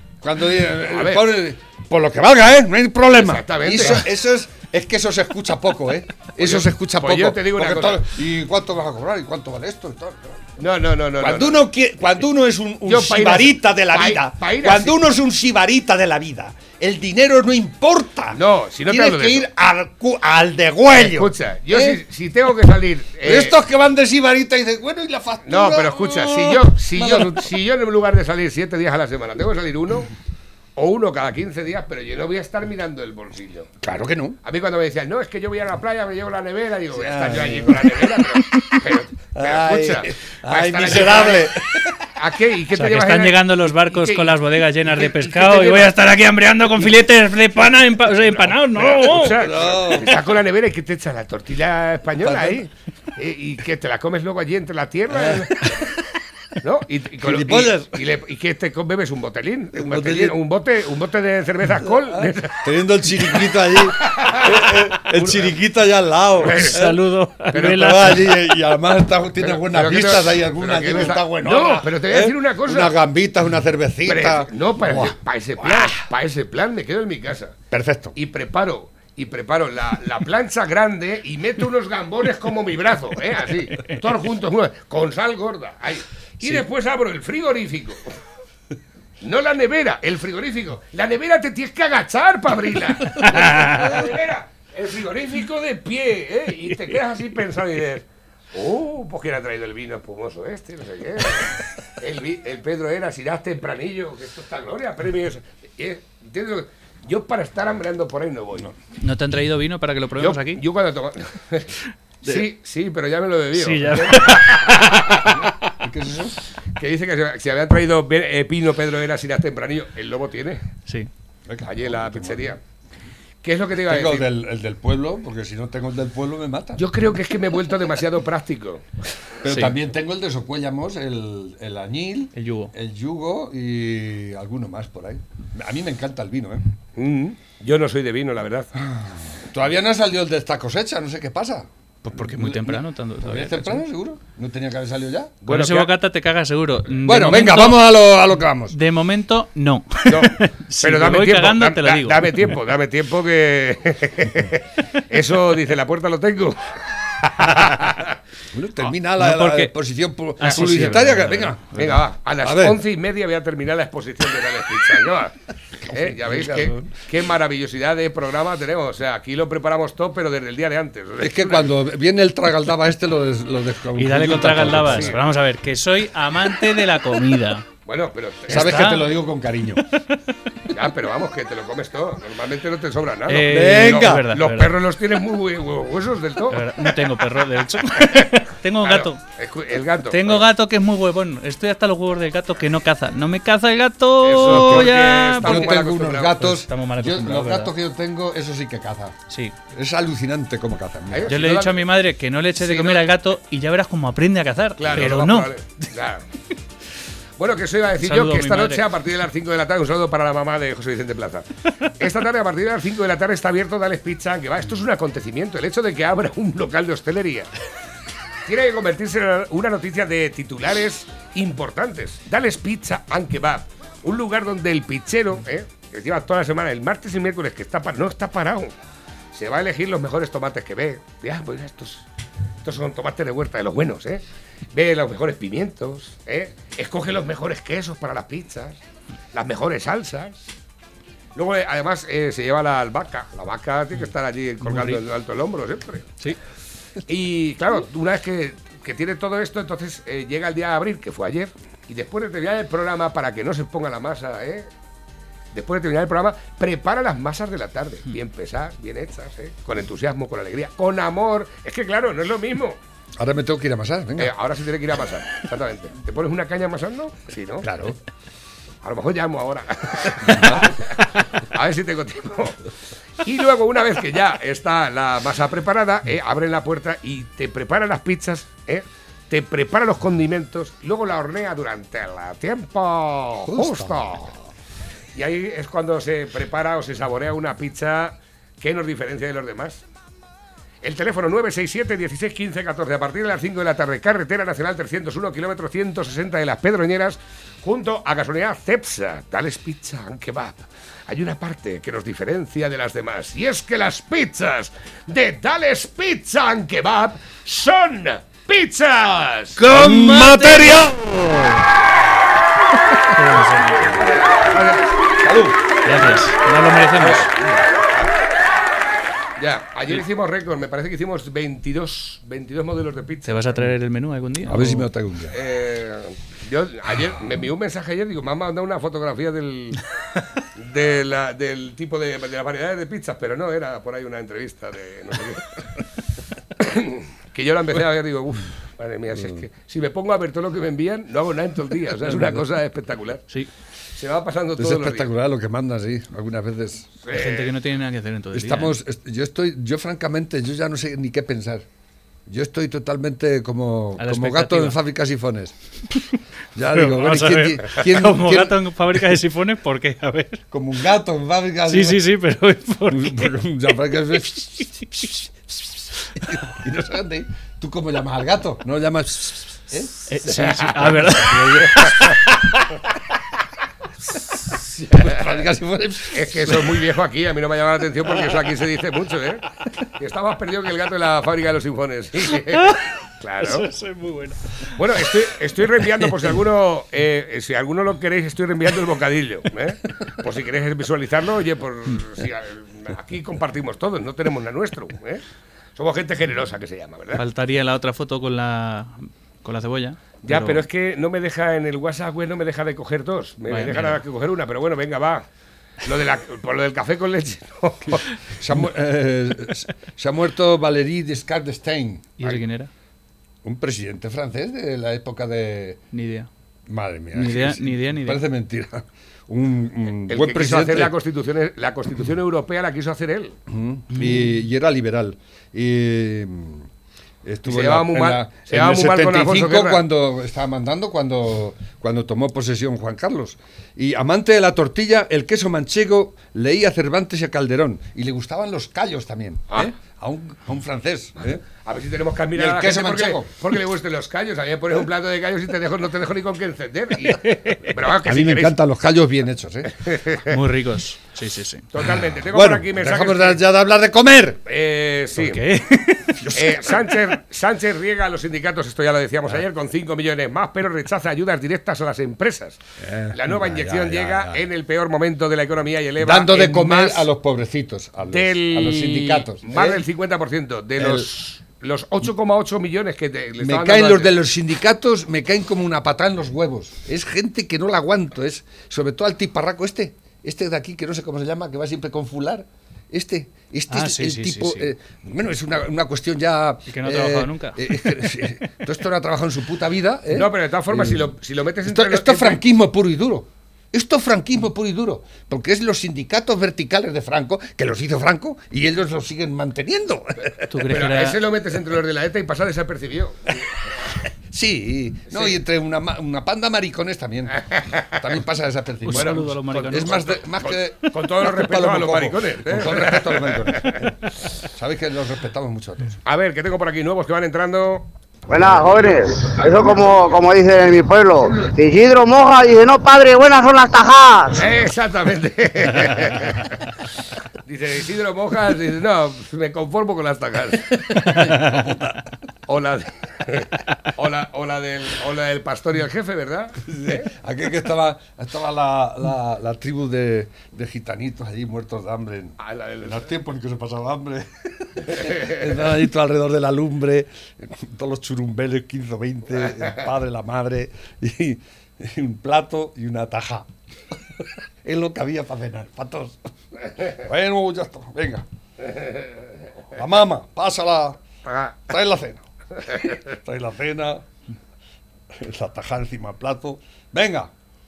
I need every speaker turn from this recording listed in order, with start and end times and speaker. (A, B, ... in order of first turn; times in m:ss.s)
0:00.2-0:10.6 A
0:00.9-0:01.3 B
0:03.1-0:04.0 B
0:06.4-0:08.0 B
0:10.6-0:11.6 B
0:11.2-0:22.0 A
0:12.9-0:15.0 B
0:18.3-0:19.5 B
0:21.0-0:23.6 B
0:23.2-0:27.5 A
0:25.5-0:30.1 B
0:30.8-0:33.7 B
0:33.8-0:34.4 A
0:34.4-0:41.5 B
0:36.9-0:38.2 A
0:39.4-0:42.0 A
0:42.2-0:46.0 B
0:42.7-0:49.4 C
0:48.7-0:55.7 B
0:49.1-0:50.2 A
0:52.2-0:52.6 A
0:55.1-0:55.9 A
0:56.6-1:02.7 B
0:57.2-0:58.0 A
0:59.8-1:00.4 A
1:01.8-1:07.0 A
1:04.0-1:05.4 B
1:06.4-1:06.8 B
1:06.5-1:08.4 C
1:07.5-1:08.1 B
1:07.5-1:16.0 A
1:09.4-1:13.0 B
1:14.1-1:17.6 B
1:17.7-1:18.2 A
1:18.2-1:28.2 B
1:29.2-1:48.7 B
1:33.1-1:33.9 C
1:49.0-1:50.6 C
1:50.2-1:51.7 B
1:52.2-1:55.3 B
1:53.6-1:55.3 C
1:55.2-1:56.4 A
1:56.8-2:00.6 B
2:01.5-2:02.6 A
2:01.6-2:02.6 B
2:03.4-2:04.3 B
2:03.9-2:06.9 A
2:06.8-2:08.9 B
2:09.4-2:16.6 A
2:09.5-2:09.8 C
2:12.4-2:12.7 C
2:17.0-2:18.7 B
2:18.8-2:25.4 A
2:22.0-2:23.8 C
2:25.4-2:25.9 B
2:25.5-2:27.9 C
2:27.0-2:28.8 A
2:28.7-2:32.3 C
2:30.1-2:38.2 B
2:38.5-2:42.8 A
2:39.2-2:39.7 C
2:40.4-2:41.6 C
2:40.4-2:41.0 B
2:41.8-2:45.4 B
2:45.8-2:47.0 A
2:45.9-2:51.8 B
2:51.2-2:55.2 A
2:54.0-2:57.7 C
2:54.8-2:55.2 B
2:57.9-2:58.8 B
2:58.5-2:59.1 C
2:58.5-2:59.8 A
3:00.7-3:06.7 B
3:03.3-3:04.8 C
3:03.4-3:04.3 A
3:06.5-3:09.2 C
3:08.8-3:10.4 B
3:10.1-3:17.7 C
3:14.2-3:16.4 B
3:14.4-3:19.2 A
3:19.3-3:19.6 C
3:19.7-3:21.4 A
3:21.1-3:21.9 B
3:21.3-3:25.5 C
3:22.6-3:23.1 B
3:24.8-3:26.2 B
3:27.4-3:31.5 B
3:28.0-3:28.8 C
3:32.0-3:37.5 B
3:38.5-3:48.7 B
3:49.3-3:52.1 B
3:52.6-3:54.2 B
3:54.7-3:58.8 B
3:59.3-4:00.4 B
4:01.4-4:06.2 B
4:04.6-4:05.0 C
4:07.1-4:14.7 B
4:15.5-4:22.8 B
4:23.2-4:24.3 A
4:24.2-4:27.7 B
4:27.6-4:28.0 A
4:28.8-4:30.9 B
4:30.3-4:30.7 A
4:31.5-4:32.6 B
4:33.2-4:44.3 B
4:43.4-4:44.4 A
4:45.2-4:49.8 B
4:50.8-5:09.6 B
5:09.6-5:11.7 A
5:09.7-5:10.8 C
5:13.1-5:14.0 C
5:14.3-5:14.9 B
5:15.2-5:15.6 A
5:15.8-5:17.3 C
5:17.0-5:18.0 B
5:19.4-5:23.5 B
5:23.2-5:24.9 C
5:24.5-5:25.4 A
5:25.3-5:29.8 B
5:30.6-5:35.5 B
5:36.6-5:43.2 B
5:44.0-5:45.1 B
5:44.6-5:46.9 A
5:47.1-5:47.5 B
5:47.1-5:48.8 C
5:48.3-5:51.6 A
5:52.3-5:55.5 A
5:54.0-5:54.8 C
5:56.6-5:58.6 A
5:56.7-6:00.4 C
6:00.5-6:02.0 A
6:01.7-6:03.4 C
6:02.9-6:04.8 A
6:06.2-6:12.7 A
6:10.1-6:12.0 C
6:14.7-6:16.8 A
6:16.1-6:19.4 B
6:20.0-6:23.7 B
6:22.5-6:22.8 C
6:23.4-6:24.7 C
6:24.8-6:35.2 B
6:35.8-6:37.2 B
6:37.2-6:40.6 C
6:40.2-6:45.3 B
6:43.5-6:44.0 C
6:45.8-6:48.1 B
6:48.4-6:52.1 A
6:52.2-6:52.7 C
6:53.4-6:55.8 A
6:55.9-6:56.3 C
6:56.7-7:00.9 A
6:57.1-6:58.2 C
7:00.1-7:03.4 B
7:03.5-7:06.7 A
7:07.2-7:21.4 A
7:07.5-7:09.8 B
7:21.6-7:28.6 B
7:22.4-7:23.3 A
7:27.9-7:29.9 A
7:29.8-7:30.2 B
7:30.3-7:31.7 C
7:31.7-7:33.4 B
7:31.8-7:34.4 A
7:34.5-7:35.4 B
7:35.2-7:36.2 C
7:36.2-7:36.9 A
7:36.3-7:42.6 B
7:42.8-7:44.5 A
7:43.1-7:47.1 B
7:46.0-7:49.8 A
7:48.1-7:54.2 B
7:50.8-7:51.1 A
7:53.4-8:11.1 A
8:03.7-8:04.7 C
8:06.7-8:08.5 C
8:10.1-8:12.4 B
8:11.6-8:20.5 A
8:20.5-8:21.2 C
8:20.7-8:23.5 B
8:24.3-8:36.0 A
8:25.1-8:25.4 B
8:28.8-8:30.1 C
8:28.9-8:33.8 B
8:36.1-8:37.9 B
8:38.3-8:44.4 D
8:44.4-8:46.7 B
8:47.5-8:51.4 B
8:51.4-8:51.7 A
8:52.5-8:57.1 B
8:56.7-9:13.5 A
9:02.4-9:03.1 B
9:04.9-9:05.4 B
9:14.2-9:18.2 A
9:19.7-9:21.0 A
9:21.3-9:21.6 B
9:21.7-9:24.0 A
9:25.1-9:27.3 A